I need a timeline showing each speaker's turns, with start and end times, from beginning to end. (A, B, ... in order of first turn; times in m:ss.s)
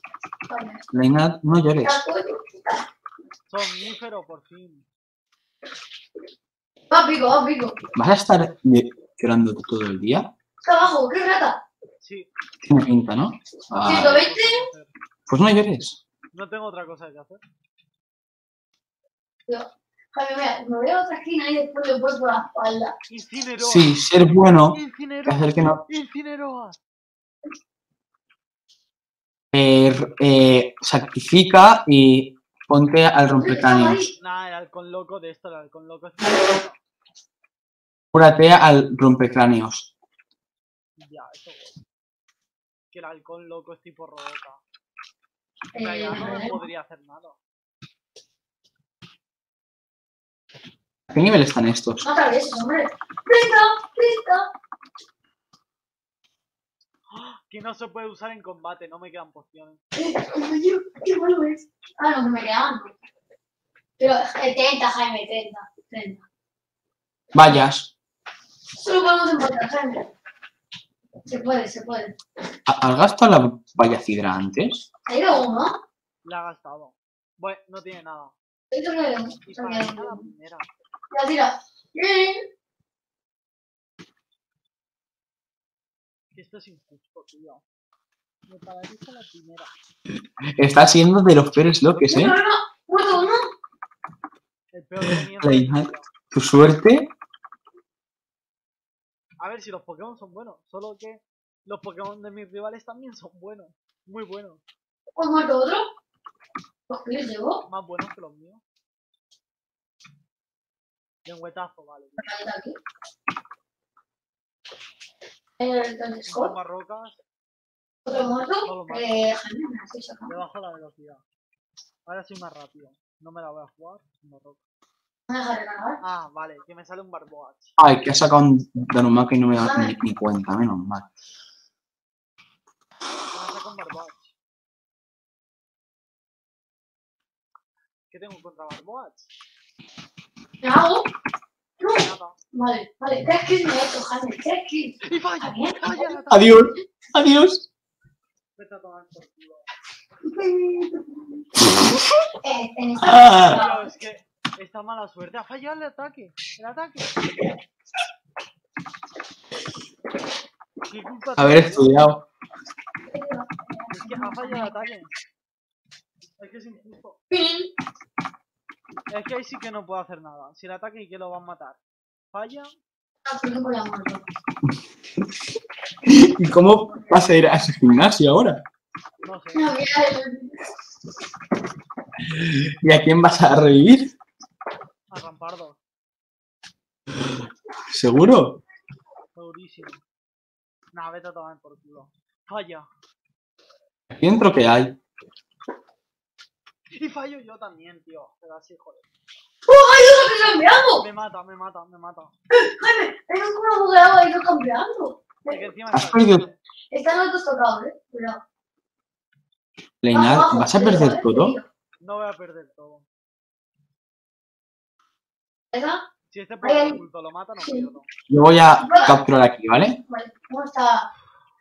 0:00.5-0:00.8 A
0:00.9-0:02.0 B
0:01.8-0:02.8 A
0:03.5-0:04.9 C
0:06.9-0:07.8 A
0:08.0-0:10.3 B
0:10.6-0:11.6 A
0:12.0-0:12.3 C
0:12.6-0:14.2 B
0:13.8-0:14.9 C
0:13.8-0:14.7 A
0:15.3-0:16.0 B
0:16.3-0:17.4 C
0:19.5-0:23.0 A
0:23.1-0:24.0 C
0:23.6-0:25.8 B
0:24.7-0:26.8 C
0:29.5-0:34.0 B
0:33.4-0:34.1 A
0:34.2-0:36.8 C
0:38.1-0:39.9 B
0:41.0-0:41.8 C
0:42.9-0:44.6 C
0:45.7-0:46.6 A
0:45.8-0:47.4 C
0:51.1-0:52.0 B
0:52.0-0:54.5 A
0:57.1-0:59.8 C
1:00.0-1:02.9 A
1:04.0-1:06.2 A
1:07.3-1:07.9 B
1:08.8-1:10.1 A
1:11.3-1:12.2 A
1:12.7-1:14.8 B
1:15.1-1:15.8 A
1:16.2-1:18.3 C
1:18.7-1:20.3 A
1:19.4-1:20.7 C
1:21.1-1:22.4 A
1:26.3-1:27.6 C
1:28.5-1:29.7 C
1:30.6-1:32.4 B
1:31.9-1:32.3 C
1:32.1-1:33.5 A
1:34.7-1:36.1 C
1:35.1-1:37.1 B
1:39.4-1:44.6 C
1:45.2-1:45.9 A
1:46.9-1:47.6 A
1:47.7-1:48.6 C
1:51.2-1:52.2 C
1:52.2-1:52.8 A
1:55.6-1:56.5 A
1:56.3-1:57.2 C
1:58.1-2:00.4 A
1:58.6-1:59.3 C
2:00.3-2:01.2 C
2:02.1-2:04.6 C
2:05.3-2:06.0 A
2:06.0-2:07.8 C
2:07.8-2:11.1 B
2:09.6-2:09.9 A
2:13.3-2:14.3 C
2:18.1-2:19.3 C
2:20.6-2:21.1 A
2:21.8-2:22.4 C
2:22.5-2:26.2 A
2:25.0-2:26.7 C
2:26.3-2:27.7 B
2:28.6-2:29.7 C
2:30.3-2:31.2 A
2:32.4-2:33.9 A
2:33.0-2:33.6 B
2:33.4-2:37.2 C
2:40.9-2:42.1 C
2:41.4-2:42.2 B
2:43.1-2:44.7 A
2:43.9-2:45.1 C
2:46.4-2:47.2 C
2:47.3-2:47.7 A
2:49.1-2:51.8 C
2:52.3-2:52.8 C
2:53.2-2:54.2 A
2:56.0-2:58.6 B
2:59.2-2:59.7 C
2:59.6-3:00.6 A
3:02.3-3:04.1 B
3:05.1-3:05.8 C
3:07.9-3:08.6 B
3:09.4-3:10.0 C
3:10.9-3:12.9 C
3:14.1-3:15.0 B
3:16.9-3:19.0 C
3:19.7-3:21.0 A
3:20.9-3:22.3 C
3:22.5-3:25.7 A
3:25.5-3:26.6 C
3:25.9-3:26.4 B
3:26.9-3:28.4 A
3:30.0-3:31.6 B
3:30.1-3:31.7 A
3:32.0-3:33.0 C
3:35.7-3:36.0 A
3:36.3-3:38.1 C
3:36.6-3:37.0 A
3:38.3-3:40.0 B
3:38.8-3:39.2 A
3:40.1-3:41.1 A